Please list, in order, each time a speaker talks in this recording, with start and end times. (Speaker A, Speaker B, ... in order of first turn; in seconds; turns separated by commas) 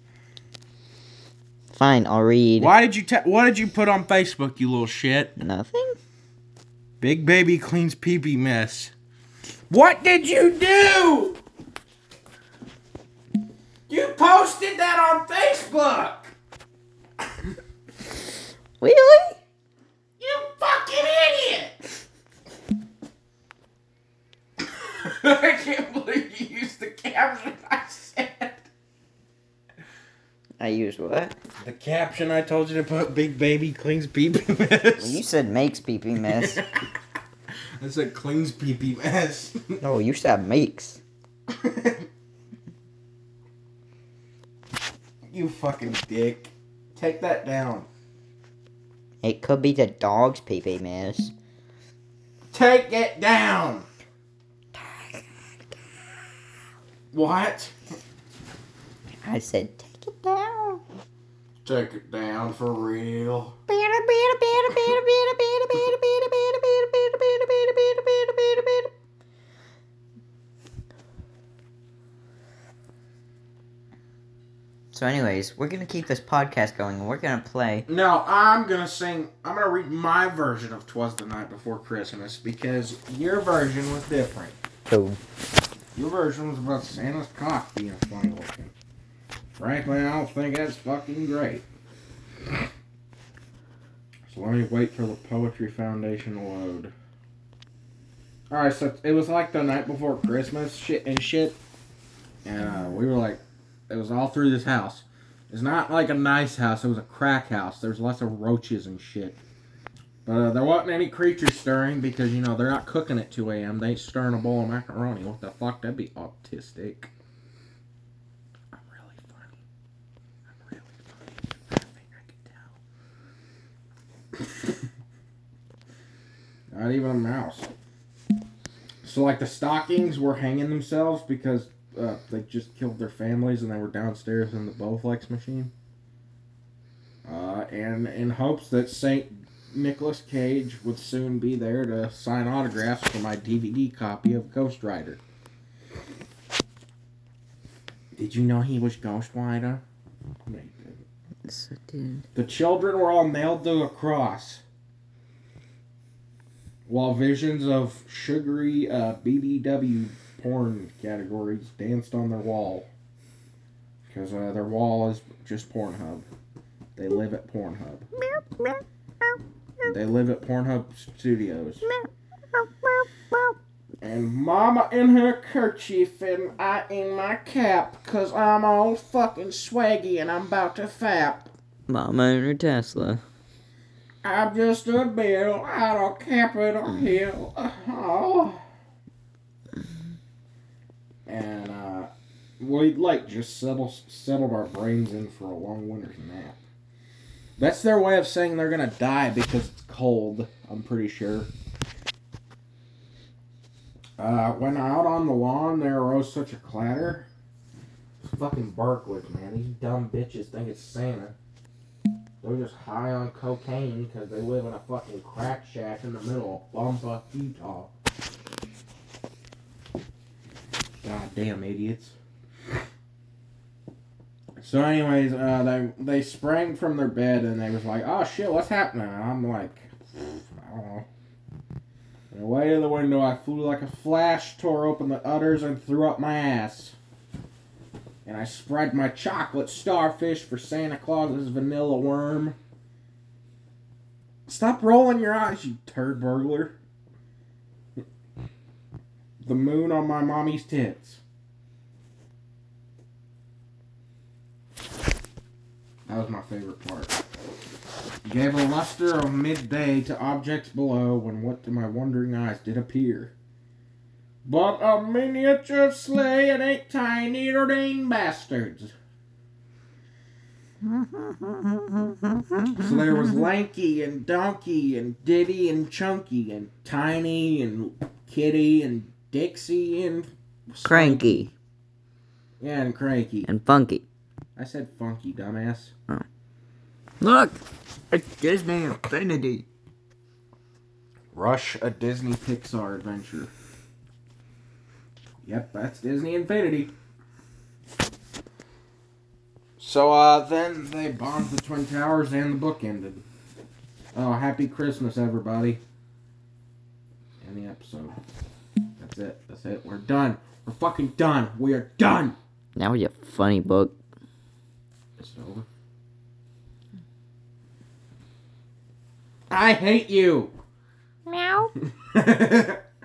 Speaker A: 1.7-2.7, Speaker B: 2.6-5.3, Speaker A: 5.4-6.0, Speaker B: 7.0-8.9, Speaker B: 9.7-11.4, Speaker B: 13.9-16.3, Speaker A: 18.8-19.4, Speaker B: 20.2-21.8, Speaker B: 24.6-28.7, Speaker A: 30.6-31.4, Speaker B: 31.6-35.2, Speaker A: 35.0-36.6, Speaker B: 36.4-36.8, Speaker B: 37.8-39.8, Speaker A: 39.8-41.0, Speaker B: 41.5-42.1, Speaker B: 45.3-47.9, Speaker A: 49.2-51.3, Speaker B: 52.5-53.9, Speaker A: 54.7-55.8, Speaker B: 57.1-57.8, Speaker A: 59.2-60.8, Speaker B: 61.6-63.6, Speaker A: 63.7-68.9, Speaker A: 74.9-77.9, Speaker B: 77.9-84.6, Speaker A: 84.9-85.2, Speaker B: 86.0-88.7, Speaker B: 89.6-91.7, Speaker B: 94.3-96.9, Speaker B: 98.5-101.6, Speaker B: 102.5-109.4, Speaker B: 110.3-117.1, Speaker B: 118.7-119.5, Speaker B: 120.5-122.8, Speaker B: 124.4-124.8, Speaker B: 126.7-127.7, Speaker B: 129.0-135.7, Speaker B: 137.2-145.2, Speaker B: 148.2-149.8, Speaker B: 150.5-151.1, Speaker A: 151.4-152.2, Speaker B: 152.3-154.6, Speaker B: 156.9-162.9, Speaker B: 164.1-166.3, Speaker B: 167.0-168.1, Speaker A: 168.2-169.9, Speaker B: 169.8-171.8, Speaker A: 171.8-173.6, Speaker B: 174.0-181.5, Speaker A: 181.9-183.2, Speaker B: 184.2-188.6, Speaker B: 191.3-196.6, Speaker B: 197.6-201.5, Speaker B: 204.2-207.3, Speaker B: 208.2-211.4, Speaker B: 212.4-217.9, Speaker B: 221.0-222.2, Speaker B: 224.6-231.1, Speaker B: 232.3-236.9, Speaker B: 238.2-242.6, Speaker B: 244.5-246.8, Speaker B: 249.4-251.2, Speaker B: 256.1-257.1, Speaker B: 258.2-263.3, Speaker B: 264.4-268.9, Speaker A: 270.8-273.4, Speaker B: 272.8-281.4, Speaker A: 280.9-281.5, Speaker B: 282.6-283.5, Speaker A: 283.4-284.1, Speaker B: 284.6-285.9, Speaker A: 287.2-287.6, Speaker A: 288.1-289.7, Speaker B: 291.3-293.5, Speaker B: 295.4-296.9, Speaker B: 299.8-303.2, Speaker B: 304.1-305.8, Speaker B: 307.4-308.2, Speaker B: 309.0-312.4, Speaker A: 312.8-314.0, Speaker B: 315.2-315.7, Speaker B: 319.5-320.5, Speaker A: 321.3-321.7, Speaker B: 321.8-322.8